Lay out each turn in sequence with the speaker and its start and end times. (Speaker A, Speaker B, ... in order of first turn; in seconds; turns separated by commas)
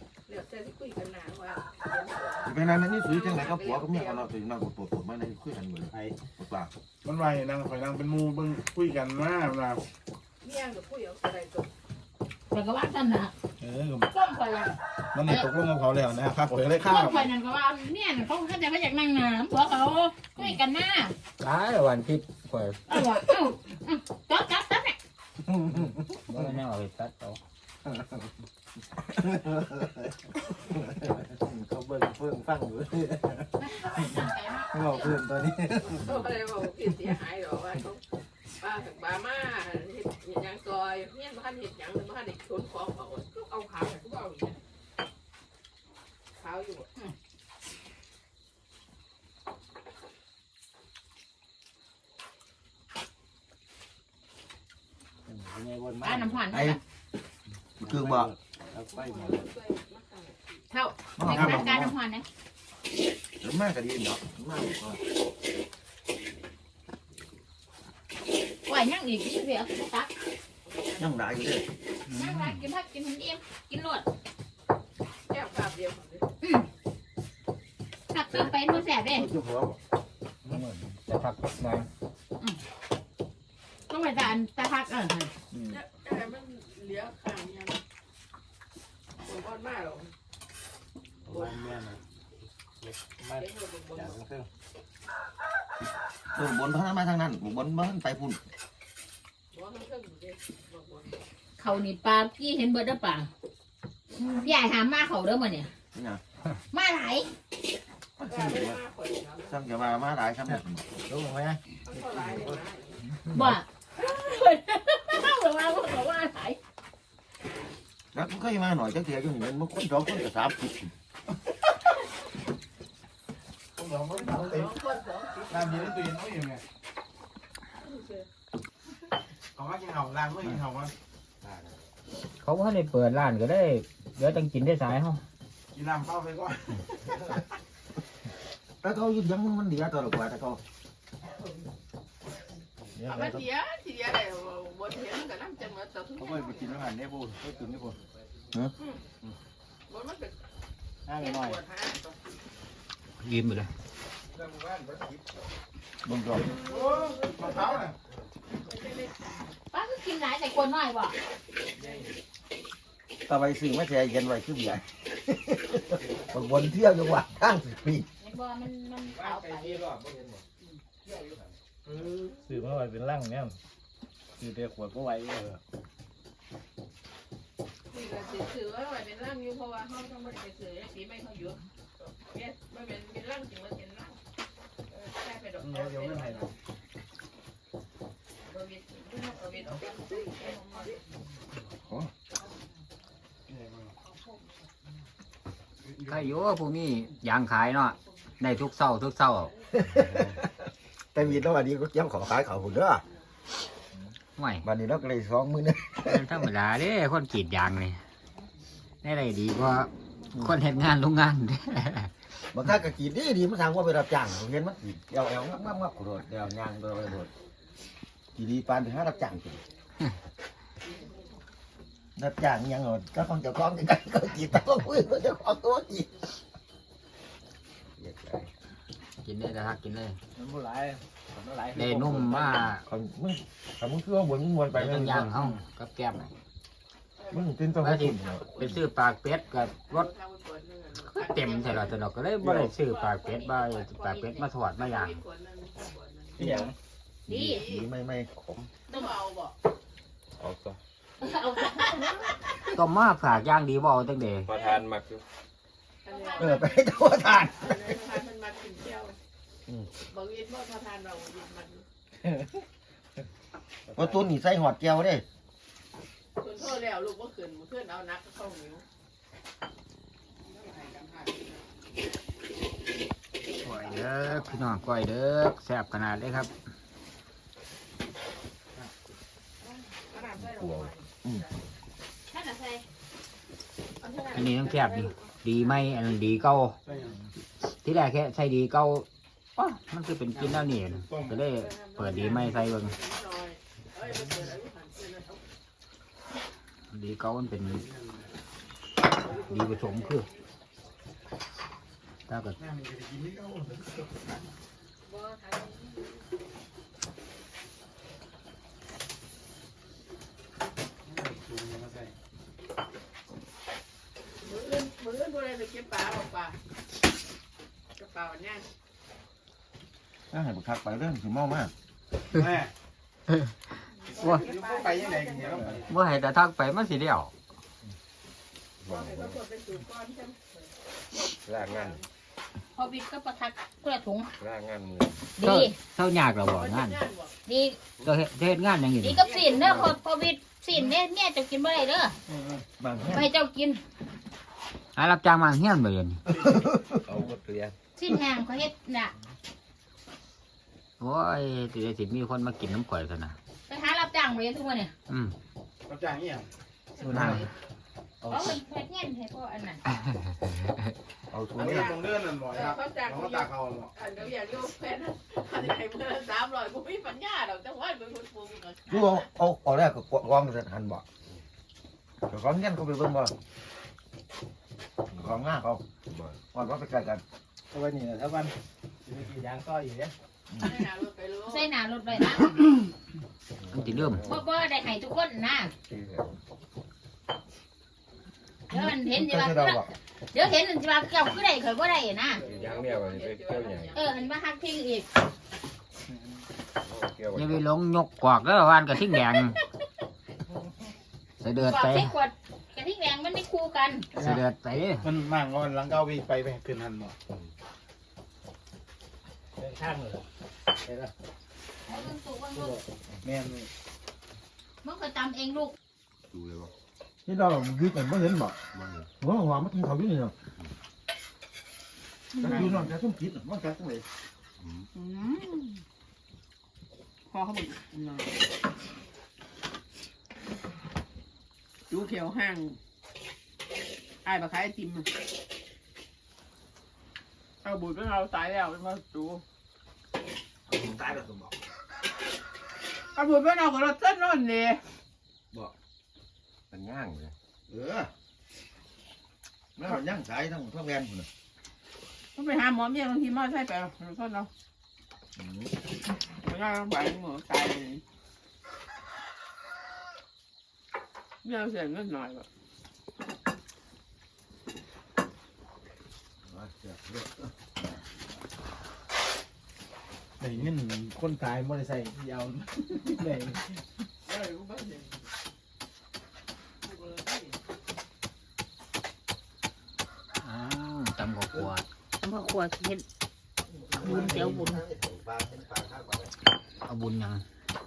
Speaker A: 0.3-4.3, Speaker B: 2.4-6.7, Speaker C: 7.0-9.8, Speaker A: 10.4-11.7, Speaker D: 12.5-13.3, Speaker C: 13.6-14.1, Speaker D: 14.0-15.5, Speaker C: 15.1-17.3, Speaker D: 16.8-21.1, Speaker E: 21.4-22.8, Speaker D: 22.9-25.0, Speaker F: 25.5-26.5, Speaker E: 26.3-27.4, Speaker F: 27.9-28.2, Speaker F: 29.1-30.1, Speaker F: 30.7-34.1, Speaker D: 33.6-35.1, Speaker F: 34.7-36.1, Speaker A: 35.8-38.0, Speaker A: 38.6-44.6, Speaker A: 46.4-46.9, Speaker F: 55.3-56.4, Speaker D: 56.0-56.8, Speaker B: 56.5-56.8, Speaker B: 57.8-58.3, Speaker F: 57.8-59.4, Speaker A: 58.7-60.6, Speaker D: 60.7-62.2, Speaker B: 61.2-62.0, Speaker B: 63.4-65.0, Speaker D: 68.7-70.1, Speaker A: 70.7-71.1, Speaker B: 71.0-71.7, Speaker E: 72.1-72.6, Speaker D: 72.1-74.1, Speaker A: 75.3-76.3, Speaker D: 76.4-76.7, Speaker D: 78.1-79.3, Speaker B: 78.3-79.8, Speaker E: 80.5-81.9, Speaker D: 83.9-85.3, Speaker A: 85.7-87.8, Speaker A: 89.2-90.1, Speaker F: 91.2-92.0, Speaker F: 92.8-94.5, Speaker A: 93.2-94.2, Speaker B: 96.3-98.4, Speaker A: 99.5-101.2, Speaker D: 101.6-103.3, Speaker D: 104.2-105.7, Speaker B: 105.9-106.2, Speaker D: 106.7-107.3, Speaker B: 108.2-108.8, Speaker A: 108.3-109.7, Speaker B: 109.5-110.9, Speaker F: 110.5-111.6, Speaker A: 111.8-113.0, Speaker E: 113.3-113.5, Speaker D: 113.3-116.6, Speaker A: 114.0-114.4, Speaker B: 118.1-120.9, Speaker C: 123.8-124.7, Speaker A: 124.0-126.1, Speaker C: 125.5-126.6, Speaker A: 127.8-128.3, Speaker C: 129.5-130.9, Speaker E: 132.4-135.2, Speaker C: 135.7-137.0, Speaker B: 138.8-140.6, Speaker B: 142.9-143.4, Speaker A: 143.0-146.8, Speaker F: 146.2-148.0, Speaker C: 146.8-147.4, Speaker A: 148.8-149.1, Speaker A: 149.9-150.4, Speaker F: 151.1-151.6, Speaker A: 151.1-152.2, Speaker E: 153.2-153.7, Speaker C: 154.3-155.2, Speaker B: 156.0-156.5, Speaker A: 156.3-157.8, Speaker C: 156.6-157.9, Speaker A: 158.6-159.5, Speaker D: 159.7-161.2, Speaker B: 163.2-168.1, Speaker D: 168.2-169.8, Speaker F: 169.7-170.4, Speaker A: 170.6-171.2, Speaker F: 172.4-173.6, Speaker F: 174.4-175.6, Speaker A: 177.9-184.2, Speaker A: 184.9-186.5, Speaker C: 185.6-186.5, Speaker A: 188.4-191.0, Speaker D: 190.4-190.8, Speaker B: 191.8-192.1, Speaker C: 193.5-194.0, Speaker C: 195.8-196.4, Speaker E: 196.0-199.5, Speaker B: 199.7-203.0, Speaker E: 204.4-204.6, Speaker B: 204.6-206.4, Speaker E: 206.0-208.0, Speaker E: 209.0-212.1, Speaker B: 210.3-210.6, Speaker B: 212.5-217.3, Speaker B: 218.3-219.6, Speaker A: 220.8-221.2, Speaker B: 222.2-226.3, Speaker G: 228.0-228.4, Speaker E: 229.2-230.2, Speaker F: 230.3-232.7, Speaker E: 231.7-232.8, Speaker B: 232.8-235.5, Speaker E: 234.7-236.3, Speaker A: 237.2-237.5, Speaker B: 237.3-238.5, Speaker E: 237.8-240.1, Speaker A: 238.2-238.9, Speaker A: 239.8-242.0, Speaker E: 241.1-245.2, Speaker F: 242.4-242.7, Speaker A: 242.8-244.1, Speaker D: 244.0-244.5, Speaker A: 244.7-246.6, Speaker F: 246.4-246.7, Speaker B: 246.4-246.7, Speaker D: 247.3-247.6, Speaker B: 247.3-248.3, Speaker A: 247.4-247.9, Speaker A: 248.8-249.6, Speaker G: 250.4-250.8, Speaker D: 251.2-252.3, Speaker E: 252.7-254.5, Speaker G: 254.4-255.2, Speaker A: 254.5-254.8, Speaker A: 256.0-259.2, Speaker D: 256.1-256.6, Speaker B: 256.4-258.0, Speaker A: 260.0-261.8, Speaker F: 263.9-264.2, Speaker B: 263.9-265.2, Speaker A: 266.4-268.8, Speaker A: 270.5-271.6, Speaker E: 273.6-276.5, Speaker A: 273.6-274.7, Speaker A: 279.6-281.5, Speaker D: 282.3-282.8, Speaker A: 284.0-286.3, Speaker E: 284.3-286.8, Speaker C: 286.8-287.2, Speaker E: 287.6-292.9, Speaker C: 290.3-291.4, Speaker A: 291.5-295.4, Speaker E: 296.9-297.9, Speaker C: 297.7-298.3, Speaker A: 299.2-300.3, Speaker E: 299.2-300.3, Speaker E: 302.3-302.6, Speaker C: 302.6-304.2, Speaker A: 305.0-306.2, Speaker C: 311.0-312.1, Speaker A: 314.4-316.5, Speaker A: 318.0-318.6, Speaker B: 320.3-321.7, Speaker C: 322.3-322.7, Speaker A: 323.9-325.7, Speaker C: 324.2-326.0, Speaker E: 325.9-327.3, Speaker G: 328.9-329.3, Speaker A: 328.9-332.0, Speaker G: 331.4-331.9, Speaker D: 332.7-334.3, Speaker G: 334.4-335.1, Speaker D: 335.4-335.8, Speaker E: 335.4-337.0, Speaker A: 336.5-337.3, Speaker D: 337.4-337.8, Speaker E: 338.0-339.3, Speaker D: 339.0-342.1, Speaker A: 339.2-339.9, Speaker C: 342.3-342.6, Speaker B: 342.8-343.3, Speaker D: 343.1-343.8, Speaker E: 344.9-346.2, Speaker C: 346.3-346.7, Speaker B: 346.3-347.0, Speaker G: 347.2-347.7, Speaker D: 347.9-349.1, Speaker E: 351.0-353.4, Speaker D: 353.7-354.9, Speaker E: 355.1-355.3, Speaker C: 355.9-356.5, Speaker D: 357.0-357.5, Speaker B: 357.1-357.5, Speaker E: 357.1-357.4, Speaker B: 358.2-358.6, Speaker D: 358.3-359.8, Speaker B: 361.3-362.1, Speaker C: 361.6-363.9, Speaker A: 361.6-369.1, Speaker B: 368.9-371.0, Speaker B: 372.3-373.3, Speaker B: 375.1-375.8, Speaker G: 376.1-376.4, Speaker B: 376.5-377.2, Speaker F: 377.7-378.5, Speaker F: 379.0-380.1, Speaker B: 380.5-380.8, Speaker A: 380.6-381.7, Speaker D: 381.5-382.7, Speaker E: 383.7-384.2, Speaker G: 383.8-384.4, Speaker D: 384.2-385.7, Speaker G: 385.9-386.4, Speaker D: 388.7-389.8, Speaker B: 388.7-389.9, Speaker D: 390.3-392.4, Speaker A: 392.3-394.3, Speaker G: 392.5-393.9, Speaker D: 393.9-395.1, Speaker G: 396.8-397.6, Speaker E: 397.3-399.6, Speaker E: 401.4-402.1, Speaker D: 401.6-404.1, Speaker E: 404.1-405.1, Speaker C: 404.1-404.4, Speaker C: 405.0-407.1, Speaker F: 409.6-410.2, Speaker F: 410.8-411.1, Speaker D: 411.9-412.8, Speaker F: 411.9-412.8, Speaker C: 413.2-413.7, Speaker D: 414.8-415.7, Speaker G: 416.3-416.7, Speaker B: 417.2-418.6, Speaker G: 418.7-419.1, Speaker B: 419.2-420.3, Speaker B: 422.4-424.0, Speaker C: 422.4-422.7, Speaker A: 424.9-425.8, Speaker A: 427.3-428.3, Speaker A: 431.9-432.8, Speaker A: 434.2-435.1, Speaker A: 437.6-439.4, Speaker B: 440.7-441.5, Speaker A: 443.1-444.9, Speaker B: 446.7-448.1, Speaker B: 449.8-451.3, Speaker A: 452.3-454.5, Speaker B: 455.4-455.7, Speaker A: 456.3-458.0, Speaker A: 461.4-462.5, Speaker B: 466.4-467.5, Speaker C: 470.4-473.5, Speaker F: 472.8-473.7, Speaker A: 474.2-475.2, Speaker A: 476.8-477.6, Speaker E: 480.4-481.9, Speaker D: 482.2-483.0, Speaker B: 483.7-486.3, Speaker D: 484.0-484.8, Speaker E: 486.8-487.4